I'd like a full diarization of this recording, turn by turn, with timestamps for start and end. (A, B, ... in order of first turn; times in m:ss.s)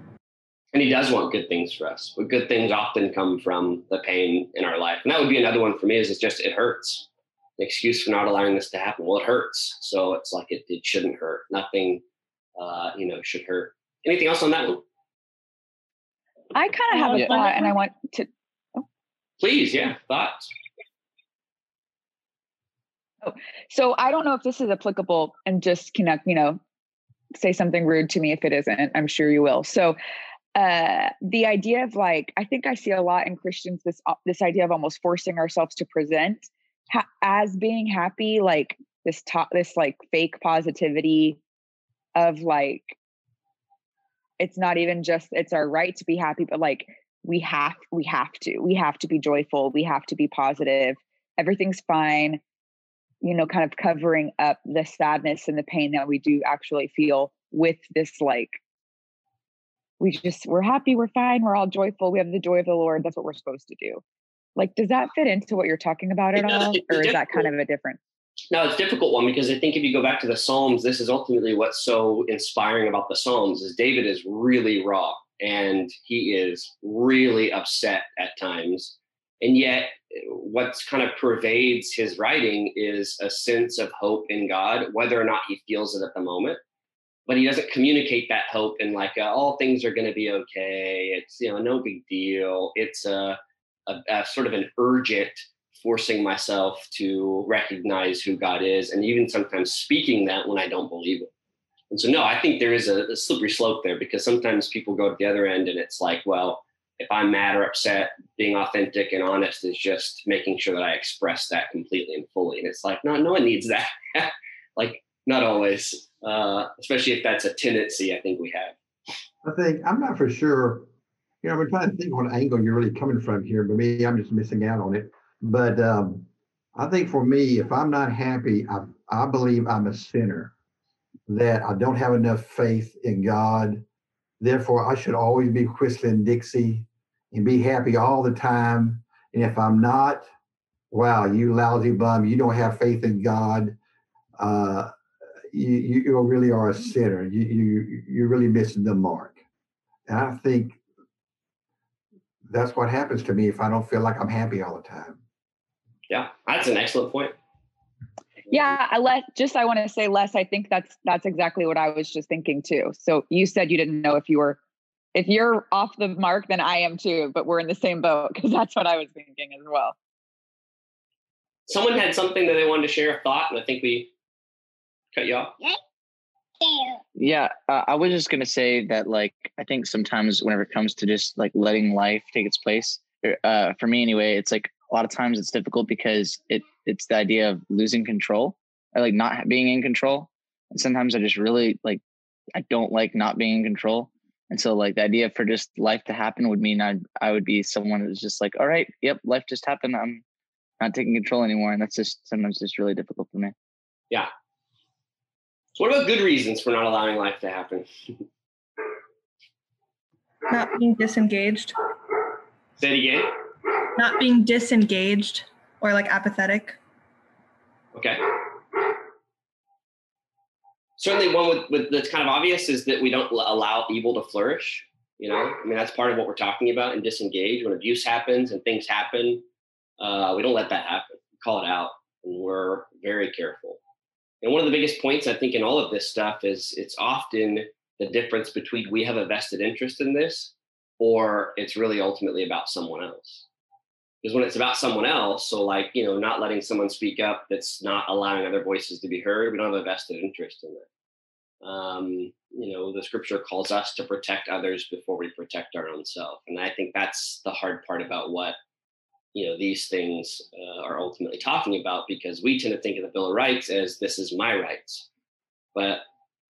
0:00.7-0:07.1 A
0:07.6-0:12.0 A
0:12.6-0:14.8 A
0:16.5-0:18.8 B
0:19.4-0:20.5 A
0:23.2-0:26.6 B
0:27.3-0:30.0 B
0:30.5-0:41.4 B
0:42.1-0:43.0 B
0:44.4-0:52.4 B
0:53.2-0:58.6 B
1:00.0-1:04.0 B
1:04.6-1:08.0 B
1:06.4-1:07.4 A
1:08.5-1:26.6 A
1:27.3-1:41.3 A
1:41.9-1:58.7 A
1:59.4-2:00.9 C
2:01.4-2:10.5 C
2:11.3-2:13.8 C
2:14.4-2:20.3 C
2:20.9-2:23.8 C
2:24.4-2:24.9 C
2:25.5-2:29.4 C
2:30.1-2:30.8 C
2:32.5-2:35.2 C
2:36.1-2:37.3 A
2:38.5-2:44.6 B
2:45.1-2:50.0 B
2:51.7-2:54.1 A
2:55.1-2:55.5 A
2:57.2-3:12.0 D
3:12.6-3:20.2 D
3:20.8-3:23.5 D
3:25.8-3:27.9 A
3:30.5-3:31.8 E
3:32.8-3:33.3 A
3:34.0-3:36.8 E
3:37.9-3:38.2 A
3:41.0-3:49.4 A
3:50.0-3:53.8 A
3:54.4-4:03.4 A
4:04.2-4:10.8 A
4:11.6-4:18.6 A
4:19.3-4:25.1 A
4:25.7-4:26.0 A